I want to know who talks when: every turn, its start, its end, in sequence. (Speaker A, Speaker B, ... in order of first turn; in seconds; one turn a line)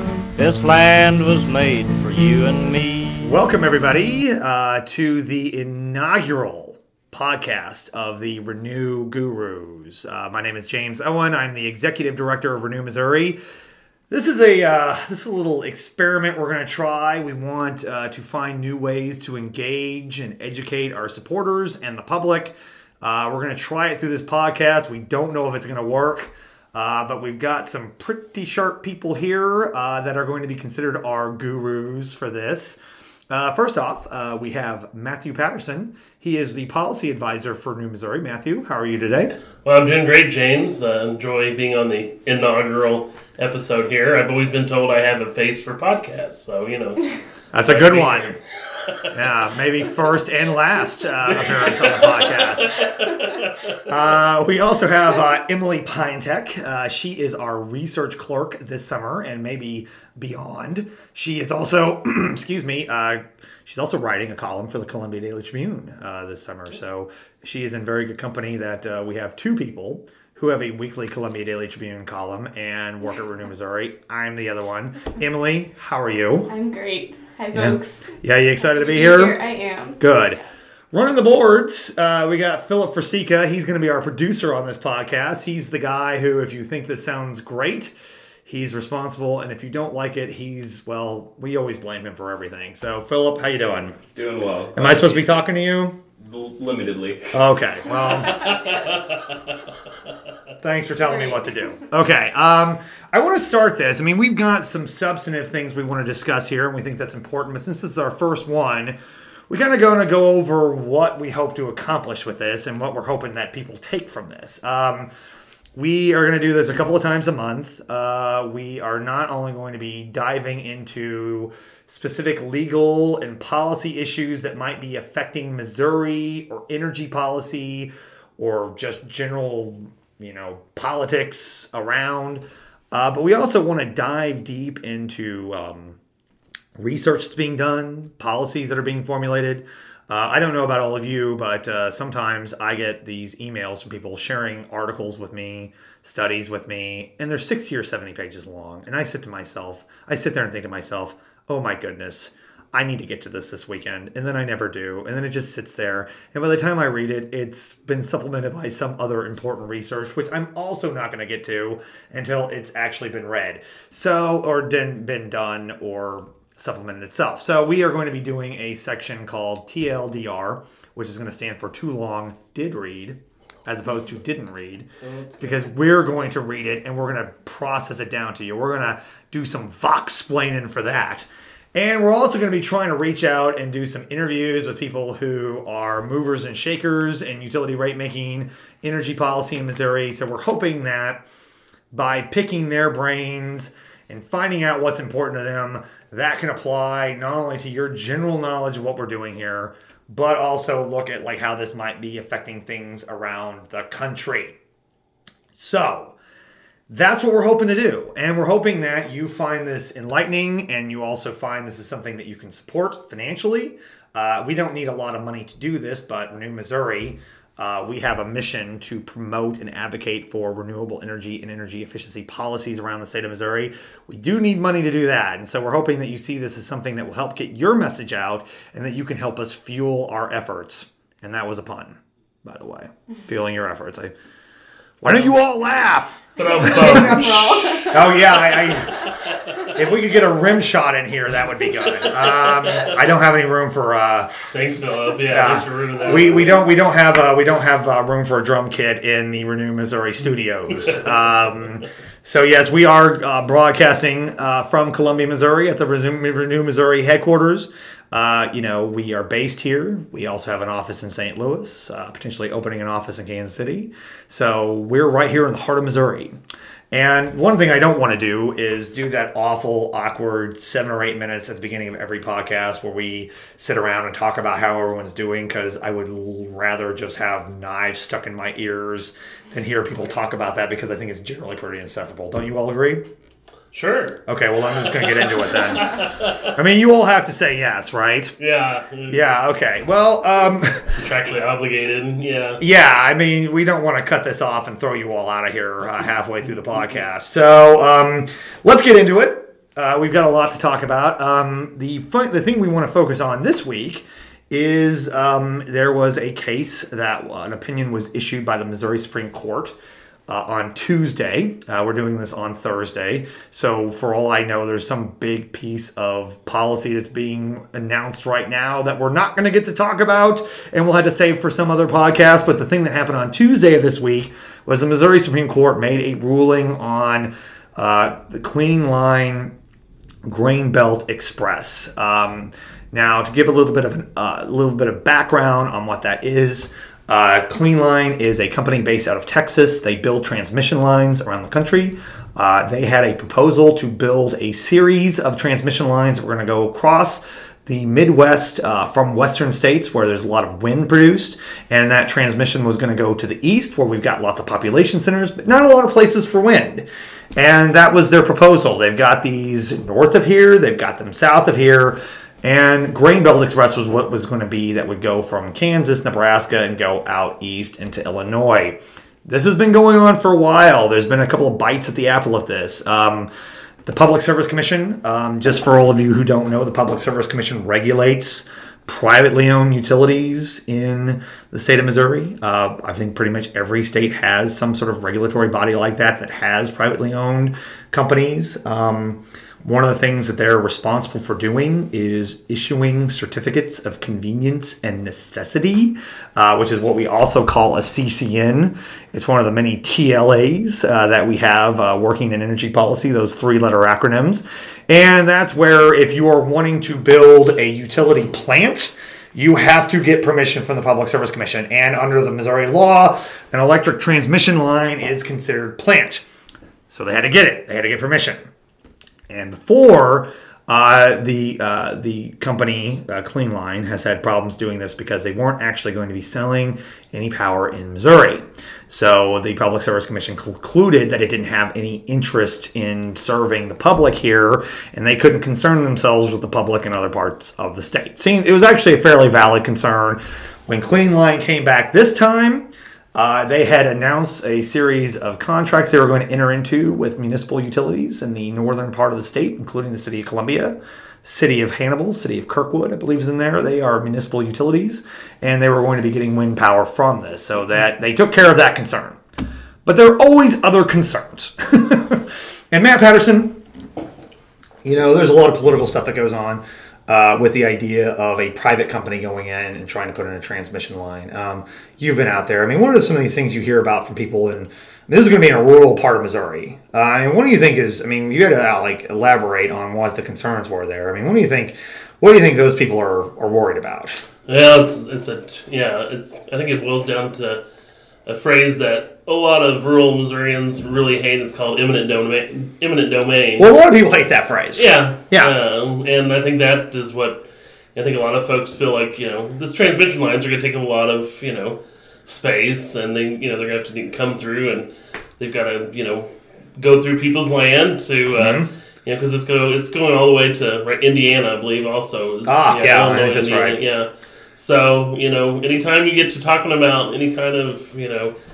Speaker A: 0.4-3.3
Speaker B: 3.2-13.4
Speaker B: 14.1-32.8
Speaker B: 33.3-39.3
Speaker C: 39.6-49.1
Speaker B: 47.5-48.4
Speaker B: 49.1-52.9
Speaker C: 51.3-53.8
Speaker B: 53.9-76.5
Speaker D: 76.5-78.1
Speaker B: 77.5-79.4
Speaker D: 78.6-80.4
Speaker B: 80.0-80.4
Speaker B: 80.9-87.9
Speaker B: 88.5-94.0
Speaker E: 94.1-95.3
Speaker B: 94.8-95.9
Speaker E: 96.2-97.4
Speaker B: 97.3-98.6
Speaker B: 100.6-109.0
Speaker B: 109.5-115.1
Speaker B: 115.8-136.0
Speaker B: 136.8-191.2
Speaker C: 175.1-175.4
Speaker B: 191.9-204.6
Speaker B: 205.6-206.2
Speaker B: 206.9-234.1
Speaker B: 235.0-239.1
Speaker C: 236.4-239.4
Speaker D: 236.4-238.2
Speaker B: 239.7-244.3
Speaker C: 242.1-242.9
Speaker C: 244.5-246.6
Speaker B: 245.3-266.4
Speaker B: 266.9-283.0
Speaker C: 283.7-284.2
Speaker B: 284.3-288.4
Speaker C: 284.8-286.5
Speaker C: 288.4-289.2
Speaker B: 289.1-291.0
Speaker C: 290.9-292.6
Speaker B: 292.6-309.7
Speaker B: 310.3-329.5
Speaker B: 330.2-356.9
Speaker B: 357.4-373.3
Speaker B: 373.9-416.2
Speaker B: 416.9-418.5
Speaker B: 419.3-459.2
Speaker B: 459.9-463.6
Speaker B: 464.8-484.3
Speaker C: 484.5-487.6
Speaker C: 488.3-493.7
Speaker B: 493.6-495.5
Speaker C: 494.8-518.3
Speaker B: 508.3-508.7
Speaker B: 512.5-513.8